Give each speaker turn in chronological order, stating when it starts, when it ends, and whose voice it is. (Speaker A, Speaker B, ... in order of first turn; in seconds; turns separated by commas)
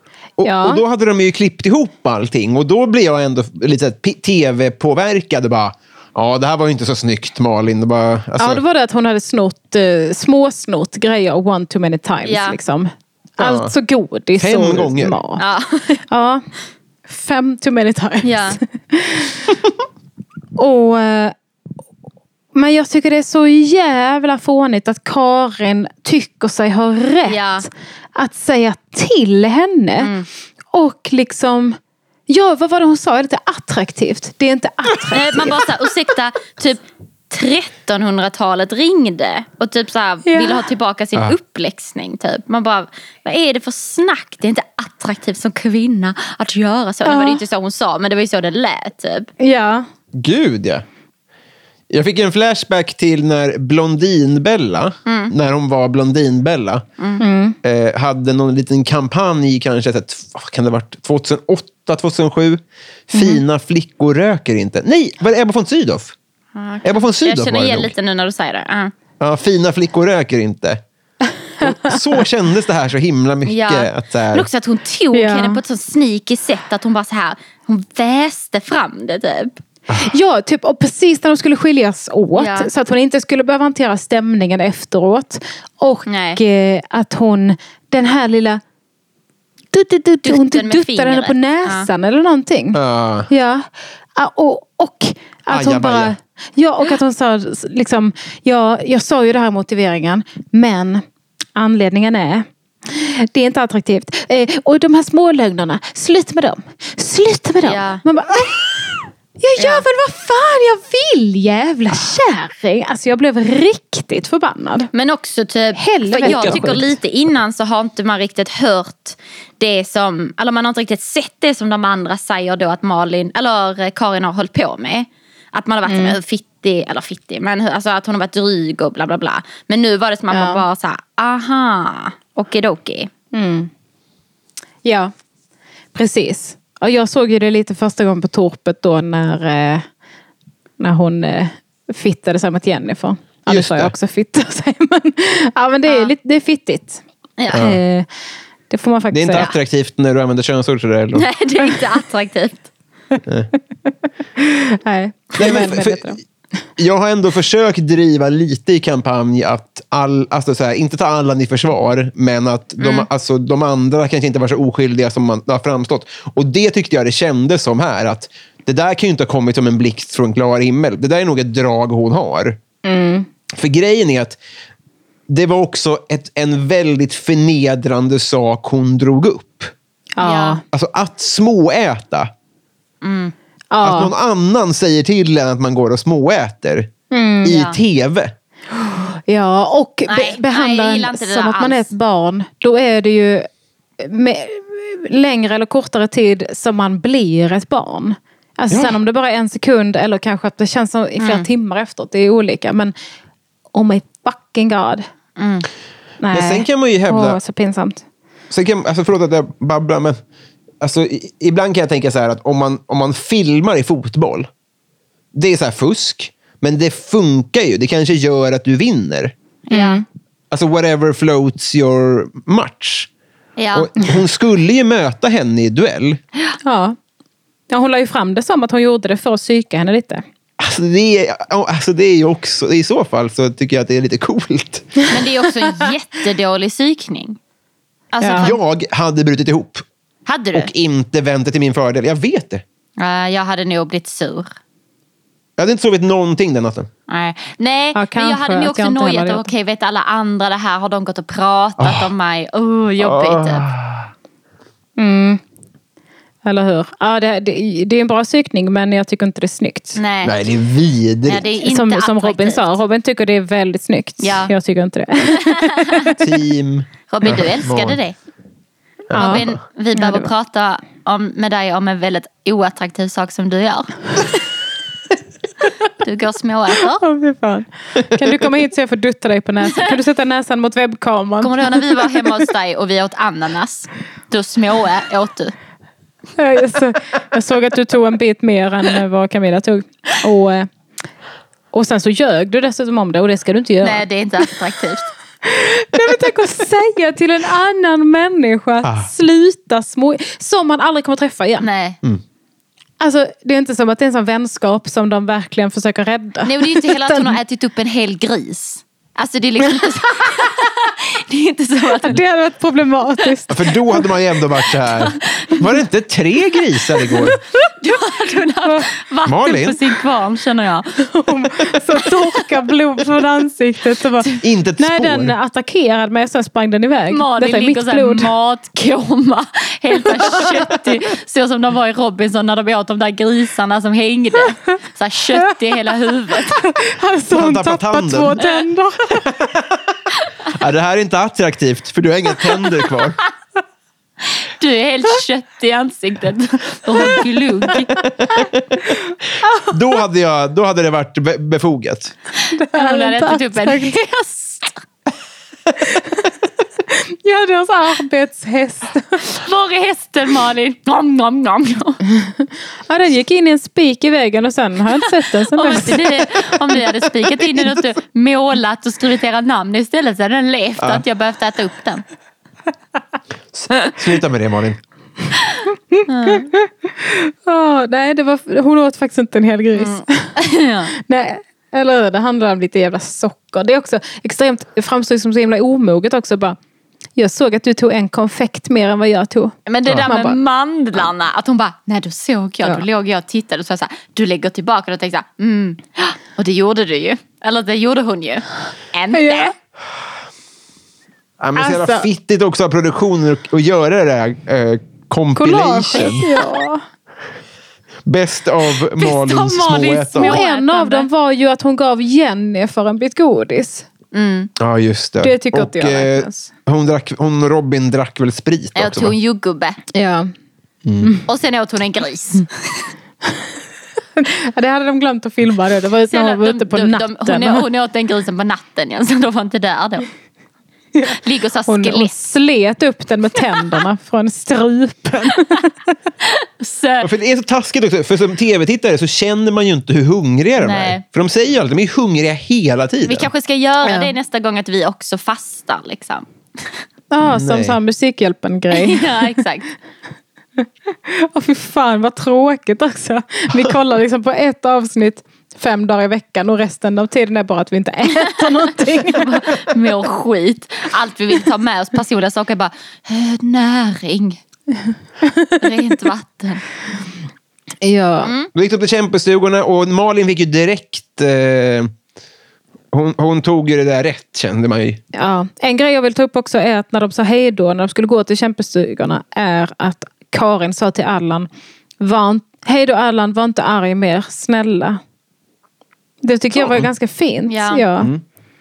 Speaker A: 0.4-8.6, Speaker B: 0.4-0.8, Speaker B: 8.4-15.4, Speaker C: 12.2-12.6, Speaker A: 13.4-13.7, Speaker A: 14.4-15.2, Speaker C: 15.4-16.0, Speaker B: 16.1-16.4, Speaker B: 17.1-19.6, Speaker C: 18.2-18.6, Speaker B: 20.6-21.3, Speaker B: 22.5-30.1, Speaker C: 27.3-27.6, Speaker C: 30.0-30.3, Speaker B: 30.7-35.7, Speaker C: 35.1-49.3, Speaker B: 40.2-40.6, Speaker B: 47.0-47.4, Speaker B: 49.4-49.8, Speaker A: 50.1-50.8, Speaker A: 51.9-56.8, Speaker C: 55.0-55.3, Speaker B: 57.2-57.6, Speaker A: 57.6-66.1, Speaker B: 63.1-63.4, Speaker C: 66.5-68.9, Speaker A: 66.8-67.9, Speaker A: 69.2-70.8, Speaker A: 71.6-74.5, Speaker B: 71.6-72.0, Speaker C: 73.5-79.6, Speaker B: 75.1-75.6, Speaker B: 80.0-88.6, Speaker C: 82.3-82.7, Speaker C: 86.1-86.4, Speaker B: 89.7-101.0, Speaker C: 90.2-91.9, Speaker A: 92.7-93.3, Speaker A: 95.5-96.1, Speaker B: 101.5-114.9, Speaker C: 107.6-108.0, Speaker C: 109.6-109.8, Speaker C: 114.9-133.1, Speaker B: 115.8-116.9, Speaker A: 116.2-117.0, Speaker B: 125.9-126.2, Speaker B: 130.3-130.6, Speaker B: 133.3-133.7, Speaker B: 134.8-135.1, Speaker B: 135.9-139.8, Speaker B: 140.8-148.1, Speaker A: 143.5-143.9, Speaker C: 145.8-146.1, Speaker C: 147.4-147.7, Speaker A: 147.5-147.8, Speaker B: 148.7-149.5, Speaker A: 149.1-151.3, Speaker C: 151.1-152.7, Speaker B: 154.4-156.2, Speaker A: 155.4-156.2, Speaker A: 156.8-172.6, Speaker C: 162.8-163.1, Speaker B: 172.8-173.3, Speaker A: 173.5-174.4, Speaker A: 175.3-179.7, Speaker B: 180.2-180.6, Speaker C: 180.2-180.6, Speaker A: 180.7-182.3, Speaker C: 183.0-183.3, Speaker B: 183.7-184.1, Speaker A: 183.8-186.9, Speaker B: 187.1-187.6, Speaker A: 187.4-188.3, Speaker C: 187.5-187.8, Speaker B: 188.8-193.5, Speaker C: 190.1-191.9, Speaker B: 194.0-202.9, Speaker A: 198.7-198.9, Speaker C: 201.2-201.5, Speaker B: 203.7-205.0, Speaker C: 205.4-205.7, Speaker B: 206.2-208.0, Speaker A: 206.3-207.4, Speaker A: 208.5-210.2, Speaker A: 210.8-214.5, Speaker A: 215.3-219.3, Speaker C: 219.7-220.0, Speaker B: 219.7-220.0, Speaker A: 220.5-223.1, Speaker C: 223.6-223.9, Speaker A: 223.7-226.2, Speaker B: 226.6-226.9, Speaker B: 227.7-230.2, Speaker A: 230.6-234.9, Speaker C: 235.1-237.4, Speaker C: 238.1-238.6, Speaker B: 238.2-238.5, Speaker A: 238.4-239.8, Speaker C: 240.2-240.7, Speaker A: 240.5-242.6, Speaker C: 243.0-244.5, Speaker A: 245.6-246.9, Speaker C: 247.1-253.6, Speaker B: 247.9-249.5, Speaker A: 251.8-252.1, Speaker A: 253.0-254.1, Speaker B: 255.0-255.4, Speaker B: 256.4-260.0, Speaker C: 259.9-260.3, Speaker A: 260.2-261.4, Speaker C: 261.2-262.8, Speaker B: 261.6-266.2, Speaker C: 264.2-264.5, Speaker C: 265.4-266.2, Speaker A: 266.2-268.0, Speaker C: 267.1-268.1, Speaker A: 269.1-269.6, Speaker B: 269.1-270.3, Speaker C: 269.1-274.4, Speaker C: 276.0-277.0, Speaker B: 276.9-282.3, Speaker C: 281.4-285.5, Speaker B: 286.4-290.7, Speaker B: 291.7-294.5, Speaker C: 293.8-295.1, Speaker B: 295.4-301.6, Speaker A: 298.8-299.1, Speaker C: 301.6-302.0, Speaker B: 303.0-307.4, Speaker C: 306.4-312.2, Speaker B: 312.0-314.1, Speaker A: 313.5-317.4, Speaker C: 314.8-315.6, Speaker C: 317.1-321.0, Speaker A: 319.2-319.8, Speaker B: 321.0-328.3, Speaker C: 321.9-322.4, Speaker A: 324.4-325.3, Speaker C: 327.1-336.6, Speaker B: 330.2-330.5, Speaker B: 336.3-339.3, Speaker A: 337.3-338.4, Speaker C: 338.4-338.6, Speaker A: 339.1-343.2, Speaker C: 344.2-348.0, Speaker B: 347.0-347.2, Speaker A: 348.0-348.8, Speaker B: 348.9-349.7, Speaker A: 349.7-352.1, Speaker C: 352.4-354.8, Speaker B: 352.5-353.9, Speaker B: 355.8-356.3, Speaker B: 356.9-359.2, Speaker C: 359.3-362.0, Speaker B: 362.2-366.5, Speaker C: 365.0-372.0, Speaker A: 370.8-371.0, Speaker A: 373.5-374.8, Speaker B: 375.9-380.3, Speaker C: 376.1-376.5, Speaker C: 379.7-380.9, Speaker B: 380.9-386.6, Speaker B: 387.1-390.4, Speaker C: 389.7-399.5, Speaker B: 399.1-399.5, Speaker A: 401.4-406.3, Speaker B: 401.6-402.1, Speaker B: 405.4-406.8, Speaker A: 408.1-410.4, Speaker C: 408.9-411.1, Speaker B: 410.2-413.9, Speaker C: 414.1-414.5, Speaker A: 414.6-419.1, Speaker B: 415.2-416.5, Speaker C: 418.7-419.8, Speaker B: 419.9-420.3, Speaker A: 420.8-421.1, Speaker C: 421.3-422.9, Speaker B: 424.1-427.6, Speaker C: 426.1-430.1, Speaker B: 430.9-435.9, Speaker C: 431.1-432.1, Speaker C: 433.5-433.8, Speaker C: 436.2-437.1, Speaker A: 437.0-443.3, Speaker C: 440.6-441.0, Speaker C: 443.1-446.8, Speaker B: 443.8-444.1, Speaker B: 447.1-449.4, Speaker A: 447.2-447.8, Speaker C: 448.7-449.6, Speaker B: 451.1-459.7, Speaker C: 458.9-464.4, Speaker B: 465.2-465.6, Speaker C: 465.6-466.6, Speaker B: 467.8-468.3, Speaker C: 468.2-468.5, Speaker A: 468.5-471.9, Speaker A: 472.9-475.0, Speaker B: 475.1-481.5, Speaker B: 482.0-485.0, Speaker B: 486.2-488.1, Speaker C: 487.5-487.8